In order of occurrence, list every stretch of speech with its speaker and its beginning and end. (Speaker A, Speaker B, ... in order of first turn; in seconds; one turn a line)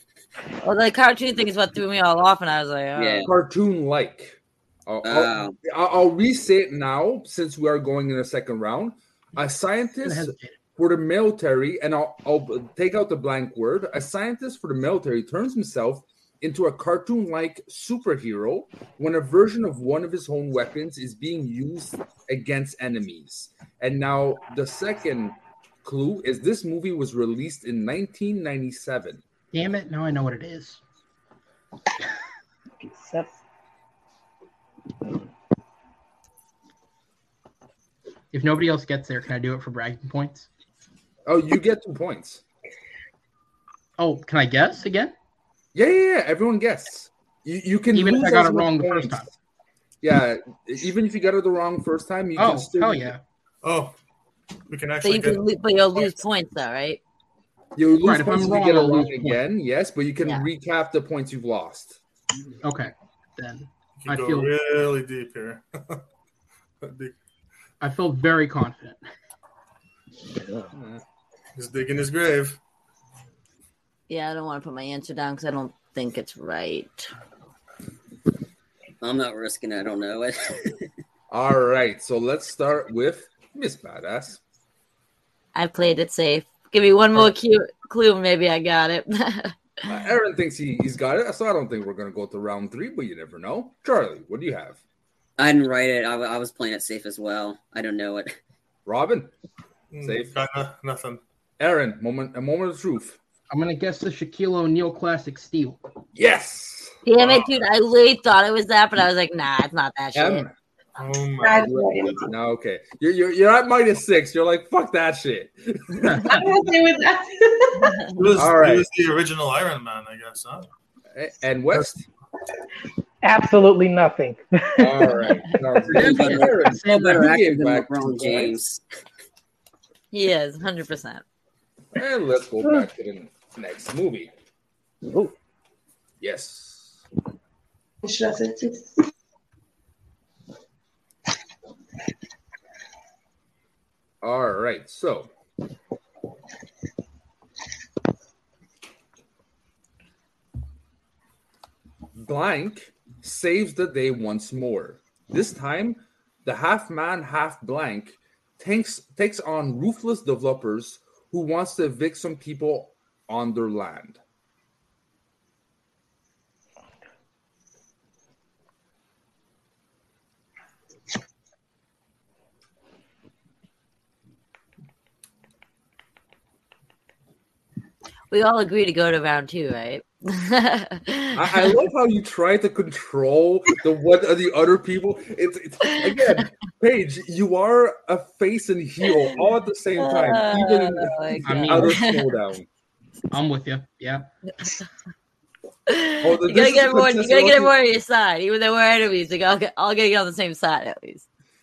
Speaker A: 0.6-3.3
Speaker B: 3.0-3.3
Speaker C: 3.2-29.2
Speaker B: 5.0-5.6
Speaker D: 10.0-10.6
Speaker D: 29.5-30.8
Speaker E: 32.8-33.3
Speaker D: 38.3-40.5
Speaker C: 41.3-42.4
Speaker D: 44.0-45.1
Speaker C: 45.7-49.3
Speaker D: 47.9-49.3
Speaker C: 50.0-53.2
Speaker D: 52.4-53.2
Speaker F: 53.6-53.9
Speaker F: 54.7-55.5
Speaker A: 55.0-57.0
Speaker C: 57.8-62.0
Speaker D: 58.0-59.4
Speaker D: 62.6-64.5
Speaker F: 64.0-66.0
Speaker F: 66.8-67.2
Speaker D: 67.8-69.0
Speaker C: 70.7-71.0
Speaker F: 71.6-72.6
Speaker A: 74.1-77.1
Speaker B: 79.0-80.8
Speaker C: 81.3-84.4
Speaker A: 85.5-89.6
Speaker C: 89.9-94.8
Speaker B: 95.4-98.3
Speaker C: 98.9-99.3
Speaker F: 99.9-101.2
Speaker C: 100.0-100.3
Speaker C: 101.6-103.2
Speaker D: 103.5-105.8
Speaker C: 106.2-107.0
Speaker A: 107.1-110.5
Speaker C: 110.2-110.5
Speaker F: 111.0-112.3
Speaker G: 111.4-112.3
Speaker C: 111.6-116.4
Speaker G: 116.1-118.1
Speaker F: 118.1-120.7
Speaker C: 118.3-118.9
Speaker C: 121.1-122.1
Speaker E: 123.2-125.6
Speaker C: 124.8-128.6
Speaker B: 125.9-128.8
Speaker D: 126.6-127.2
Speaker A: 130.1-131.2
Speaker C: 131.9-134.3
Speaker C: 136.2-137.0
Speaker G: 138.0-138.9
Speaker C: 144.2-145.3
Speaker C: 152.2-164.2
Speaker A: 178.3-181.7
Speaker C: 181.3-192.7
Speaker A: 190.0-192.2
Speaker D: 191.4-192.0
Speaker D: 193.3-194.3
Speaker A: 195.9-201.2
Speaker C: 196.2-197.7